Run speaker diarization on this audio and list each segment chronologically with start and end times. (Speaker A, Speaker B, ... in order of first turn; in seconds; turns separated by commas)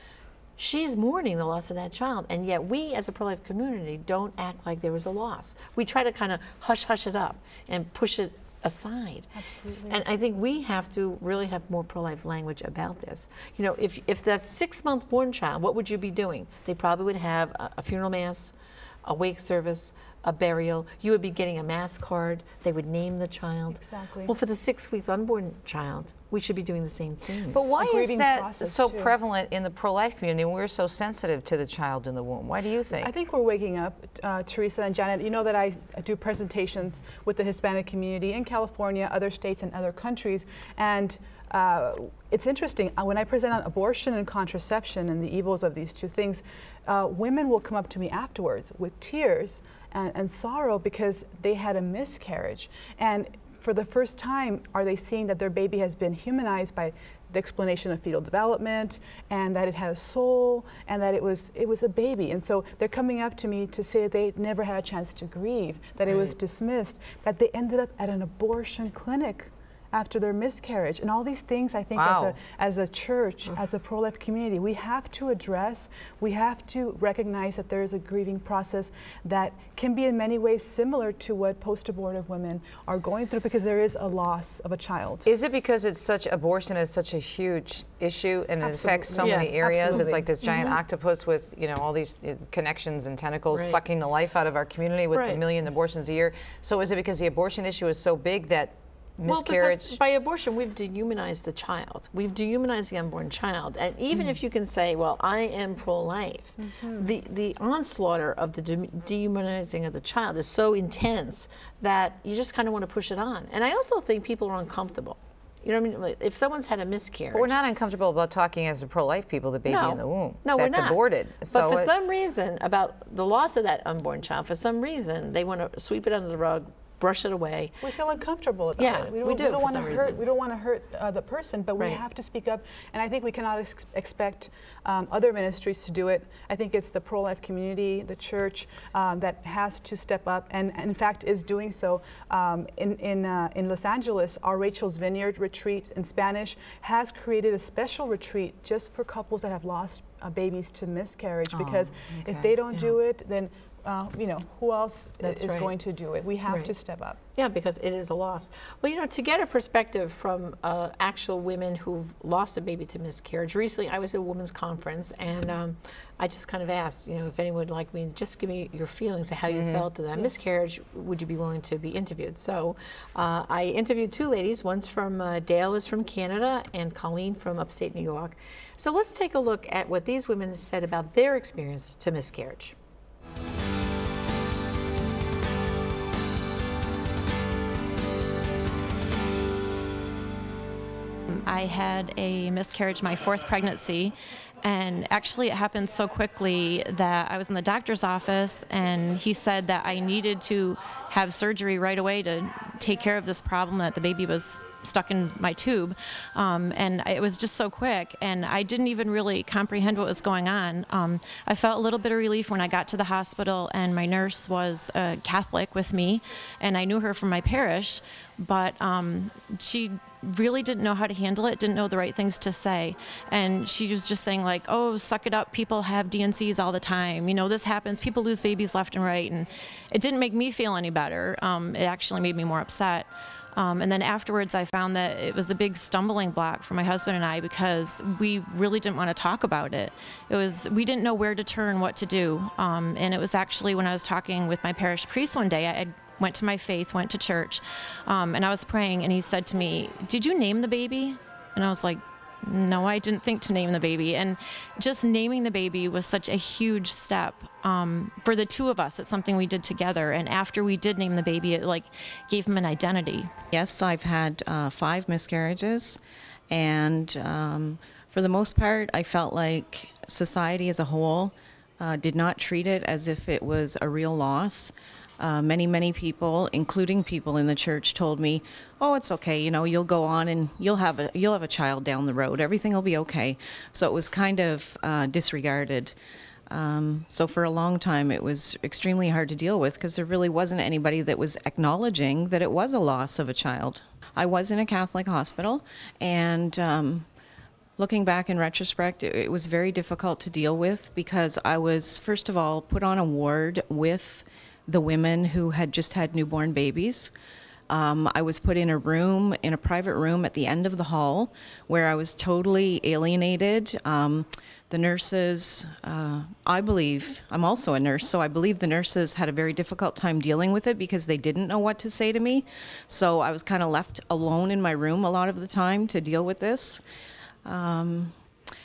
Speaker A: 0.6-9.3, Speaker B: 9.3-10.0, Speaker A: 9.9-27.7, Speaker B: 23.7-24.3, Speaker C: 27.5-33.1, Speaker B: 27.8-29.1, Speaker B: 33.0-85.3, Speaker A: 66.1-66.3, Speaker C: 72.0-72.4, Speaker C: 85.2-100.0, Speaker B: 88.6-90.3, Speaker A: 89.2-90.8, Speaker A: 93.5-93.8, Speaker A: 95.1-95.4, Speaker A: 99.3-117.5, Speaker B: 106.6-107.1, Speaker C: 117.3-121.9, Speaker A: 119.7-127.9, Speaker B: 127.8-157.2, Speaker A: 128.8-130.2, Speaker A: 131.8-132.0, Speaker C: 151.6-152.5, Speaker A: 155.2-155.7, Speaker A: 156.5-156.7, Speaker A: 157.3-182.8, Speaker C: 169.5-169.9, Speaker D: 191.4-263.3, Speaker E: 263.5-266.0, Speaker E: 266.5-285.9, Speaker E: 286.5-297.1, Speaker E: 297.8-307.1, Speaker E: 307.7-326.8, Speaker E: 327.4-328.2